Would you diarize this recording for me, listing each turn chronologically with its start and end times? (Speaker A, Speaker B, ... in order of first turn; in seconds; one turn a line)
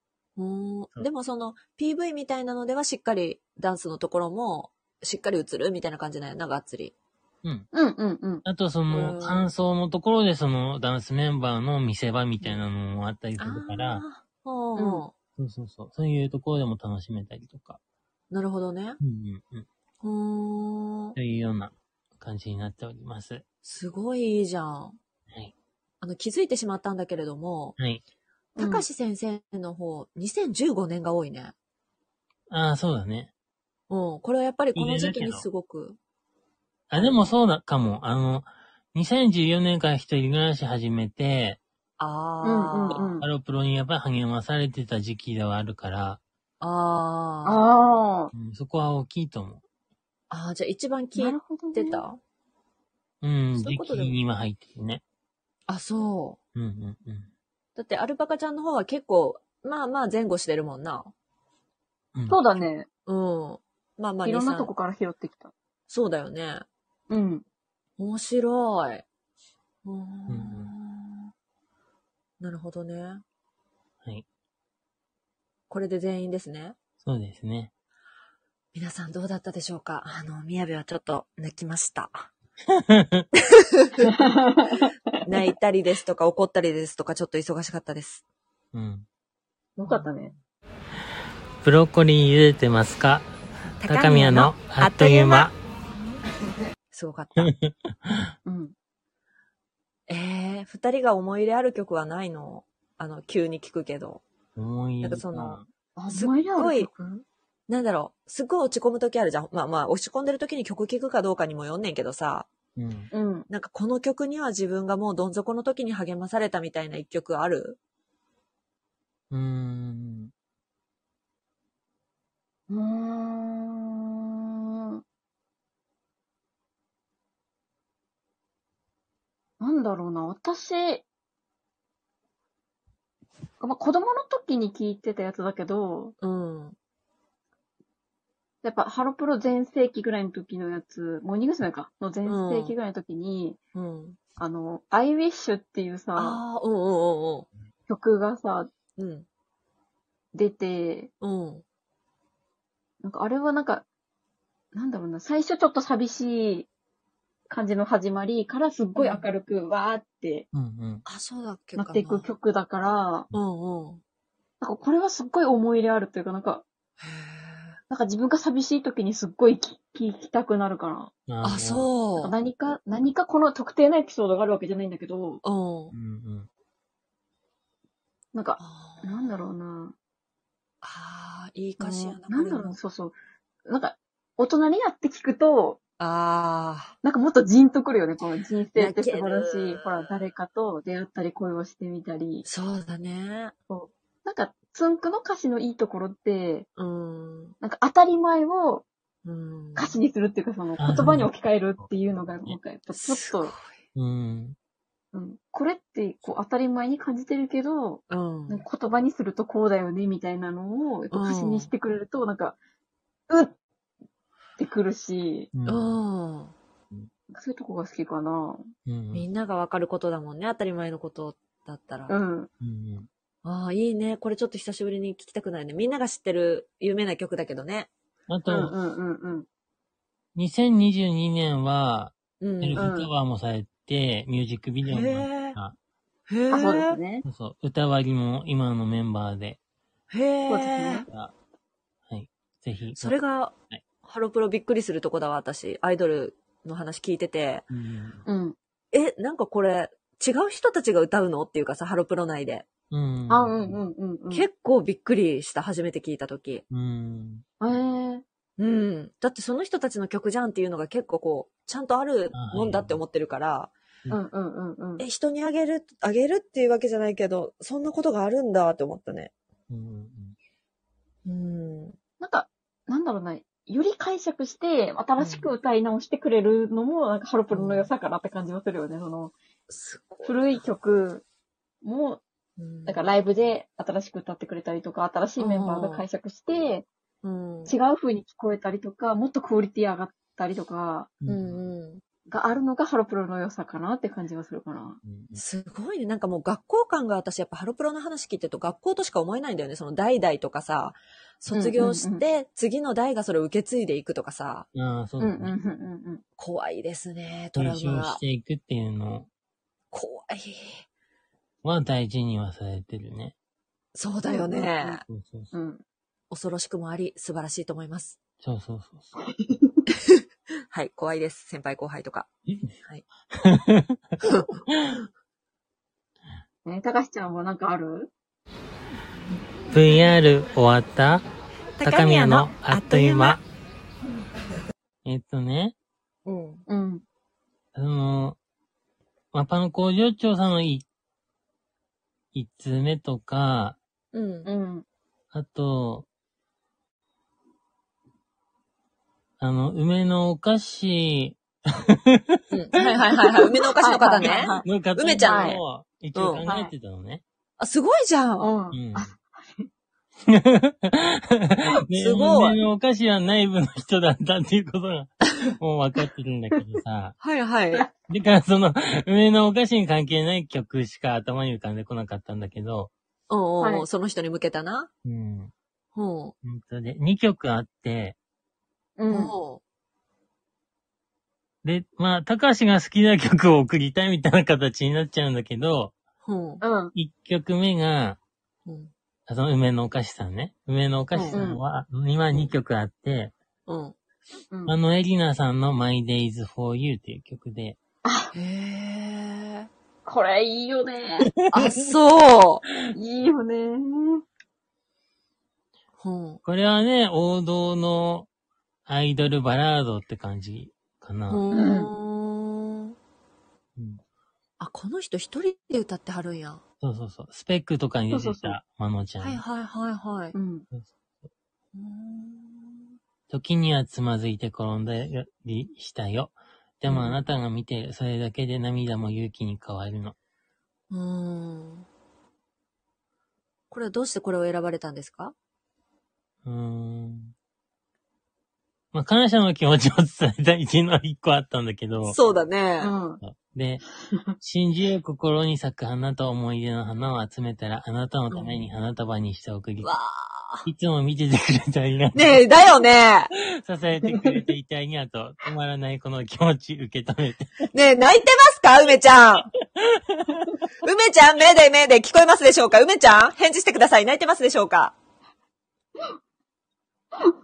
Speaker A: 0.4-6.9
Speaker B: 7.7-8.4
Speaker C: 8.4-14.0
Speaker A: 8.9-9.5
Speaker A: 13.4-15.1
Speaker B: 14.8-15.0
Speaker C: 15.4-17.8
Speaker A: 18.3-19.0
Speaker C: 19.0-19.7
Speaker A: 20.0-21.2
Speaker C: 21.2-23.4
Speaker A: 23.6-25.0
Speaker A: 26.0-27.8
Speaker A: 28.6-31.5
Speaker B: 28.6-28.9
Speaker C: 32.5-33.3
Speaker A: 33.9-36.0
Speaker C: 34.8-35.5
Speaker C: 36.9-41.6
Speaker A: 42.0-43.1
Speaker B: 42.4-43.3
Speaker C: 43.2-46.2
Speaker A: 46.6-47.6
Speaker B: 47.5-48.3
Speaker C: 48.3-49.6
Speaker A: 50.3-52.2
Speaker B: 51.2-52.0
Speaker C: 53.2-55.0
Speaker A: 53.6-54.1
Speaker A: 55.7-56.4
Speaker C: 56.5-57.3
Speaker A: 57.8-61.1
Speaker C: 62.1-62.4
Speaker B: 62.3-62.9
Speaker A: 63.1-64.7
Speaker B: 64.2-65.5
Speaker A: 65.9-66.7
Speaker B: 67.1-67.5
Speaker A: 68.0-69.0
Speaker A: 69.8-71.3
Speaker C: 70.3-70.7
Speaker A: 72.4-73.2
Speaker A: 75.7-76.8
Speaker C: 77.0-77.7
Speaker A: 78.7-82.3
Speaker C: 82.7-83.2
Speaker A: 83.5-84.1
Speaker B: 84.0-85.2
Speaker A: 85.2-88.2
Speaker C: 88.7-89.1
Speaker B: 89.8-90.3
Speaker C: 91.6-93.3
Speaker A: 93.8-95.5
Speaker C: 93.8-95.5
Speaker A: 96.9-97.5
Speaker C: 97.4-98.2
Speaker B: 98.5-98.7
Speaker A: 100.1-104.2
Speaker C: 104.6-105.7
Speaker A: 105.0-106.9
Speaker B: 106.0-107.2
Speaker A: 107.7-112.5
Speaker C: 112.8-113.1
Speaker B: 113.1-113.5
Speaker A: 113.5-117.8
Speaker C: 119.3-120.3
Speaker B: 122.7-125.0
Speaker B: 129.6-131.1
Speaker B: 133.6-136.2
Speaker A: 136.2-136.8
Speaker B: 138.6-143.6
Speaker A: 142.3-142.7
Speaker A: 143.8-144.2
Speaker B: 144.4-146.4
Speaker A: 146.2-147.5
Speaker B: 147.9-148.7
Speaker A: 149.0-149.3
Speaker B: 150.3-151.1
Speaker A: 151.2-151.6
Speaker B: 153.0-153.8
Speaker B: 154.7-156.7
Speaker B: 157.5-160.5
Speaker A: 159.0-159.3
Speaker C: 160.5-161.0
Speaker A: 161.1-162.3
Speaker B: 161.8-163.3
Speaker A: 163.3-164.0
Speaker B: 164.6-166.7
Speaker A: 167.0-167.8
Speaker B: 167.9-171.1
Speaker C: 171.3-171.9
Speaker A: 171.4-172.3
Speaker B: 172.2-175.4
Speaker A: 175.4-175.9
Speaker C: 175.9-176.5
Speaker B: 178.3-179.9
Speaker A: 178.6-179.5
Speaker A: 180.8-182.8
Speaker B: 181.8-183.2
Speaker B: 183.7-185.8
Speaker A: 186.0-186.9
Speaker B: 187.0-192.4
Speaker A: 188.8-190.1
Speaker A: 192.4-193.5
Speaker B: 193.7-196.7
Speaker A: 196.8-197.6
Speaker B: 197.6-198.9
Speaker A: 199.2-199.9
Speaker B: 199.8-203.5
Speaker C: 200.8-201.3
Speaker A: 202.9-203.7
Speaker C: 203.9-204.6
Speaker B: 205.1-212.6
Speaker A: 208.1-208.7
Speaker A: 211.1-211.7
Speaker B: 213.3-213.6
Speaker B: 214.6-215.5
Speaker C: 215.5-216.0
Speaker A: 215.7-216.5
Speaker B: 217.3-218.7
Speaker C: 218.9-219.3
Speaker A: 219.1-222.1
Speaker B: 222.1-222.5
Speaker C: 222.6-223.1
Speaker A: 223.4-227.9
Speaker C: 228.3-228.7
Speaker B: 228.5-229.5
Speaker C: 230.3-235.8
Speaker A: 232.4-232.9
Speaker B: 232.8-233.1
Speaker A: 234.9-235.6
Speaker A: 236.3-237.0
Speaker B: 236.5-237.2
Speaker C: 237.2-239.6
Speaker A: 240.1-241.1
Speaker B: 240.5-241.1
Speaker C: 242.1-243.1
Speaker A: 243.0-247.7
Speaker C: 247.7-248.2
Speaker B: 248.3-248.6
Speaker A: 248.9-252.7
Speaker C: 252.9-253.8
Speaker B: 253.3-254.5
Speaker A: 254.3-256.6
Speaker C: 256.7-257.5
Speaker B: 257.6-258.2
Speaker A: 258.6-263.7
Speaker C: 262.3-263.0
Speaker B: 264.1-265.1
Speaker A: 265.0-269.3
Speaker C: 269.7-270.4
Speaker A: 271.3-272.0
Speaker B: 272.2-279.3
Speaker A: 275.2-275.5
Speaker A: 277.5-277.9
Speaker A: 279.7-280.4
Speaker B: 280.2-281.2
Speaker B: 281.8-282.2
Speaker A: 282.6-283.0
Speaker B: 282.9-286.9
Speaker A: 285.4-286.1
Speaker A: 287.2-287.8
Speaker B: 287.7-291.1
Speaker C: 291.2-291.6
Speaker A: 291.3-292.0
Speaker B: 292.3-295.0
Speaker C: 295.0-295.4
Speaker A: 295.4-304.7
Speaker B: 301.5-302.2
Speaker C: 304.8-305.5
Speaker B: 305.2-306.2
Speaker A: 306.4-308.2
Speaker C: 307.6-309.3
Speaker A: 309.9-310.8
Speaker C: 311.6-313.3
Speaker A: 313.9-315.0
Speaker B: 314.3-315.8
Speaker C: 315.1-315.5
Speaker A: 316.3-318.2
Speaker C: 318.4-319.1
Speaker B: 319.2-319.9
Speaker A: 320.0-322.3
Speaker C: 323.4-324.0
Speaker A: 324.2-324.6
Speaker B: 326.6-328.1
Speaker C: 329.7-331.2
Speaker A: 331.8-333.4
Speaker C: 331.8-333.4
Speaker C: 335.1-335.7
Speaker A: 336.3-336.6
Speaker B: 336.7-337.0
Speaker C: 337.8-338.4
Speaker C: 339.3-340.9
Speaker C: 342.3-343.8
Speaker A: 344.1-344.5
Speaker B: 344.4-344.9
Speaker C: 345.3-346.1
Speaker C: 349.4-352.4
Speaker A: 352.5-355.6
Speaker B: 353.8-354.7
Speaker C: 354.2-357.2
Speaker B: 355.2-355.6
Speaker A: 356.1-356.4
Speaker B: 356.5-356.7
Speaker A: 357.6-358.5
Speaker B: 358.4-359.7
Speaker C: 358.7-359.1
Speaker C: 360.3-367.2
Speaker A: 361.9-362.6
Speaker A: 367.2-367.9
Speaker C: 368.1-372.9
Speaker A: 373.3-374.9
Speaker B: 373.6-373.9
Speaker C: 375.1-375.5
Speaker A: 375.9-376.4
Speaker C: 376.4-378.2
Speaker B: 379.0-379.4
Speaker A: 379.1-379.6
Speaker C: 381.6-385.9
Speaker A: 386.2-386.6
Speaker B: 386.6-386.9
Speaker C: 386.9-388.2
Speaker A: 388.7-388.9
Speaker C: 389.3-393.3
Speaker A: 391.1-391.4
Speaker B: 391.3-391.6
Speaker A: 393.7-393.9
Speaker C: 394.7-397.8
Speaker B: 398.1-398.3
Speaker A: 398.3-399.7
Speaker B: 400.1-401.3
Speaker A: 401.5-402.6
Speaker B: 402.9-404.2
Speaker A: 406.0-406.4
Speaker C: 406.4-408.3
Speaker C: 408.9-411.4
Speaker A: 411.3-412.9
Speaker B: 411.5-411.9
Speaker A: 414.6-416.6
Speaker C: 416.8-419.4
Speaker B: 418.1-418.6
Speaker A: 419.2-420.4
Speaker B: 420.3-420.7
Speaker A: 421.7-422.9
Speaker C: 423.3-430.1
Speaker A: 430.9-431.9
Speaker A: 433.7-435.4
Speaker C: 436.4-437.3
Speaker C: 438.9-442.2
Speaker A: 442.1-442.9
Speaker B: 442.8-443.2
Speaker C: 443.2-443.8
Speaker C: 444.4-449.9
Speaker A: 449.8-450.7
Speaker C: 450.6-452.4
Speaker A: 452.1-453.3
Speaker C: 453.5-457.7
Speaker B: 454.1-454.4
Speaker A: 457.7-459.5
Speaker C: 459.8-460.5
Speaker A: 460.8-464.9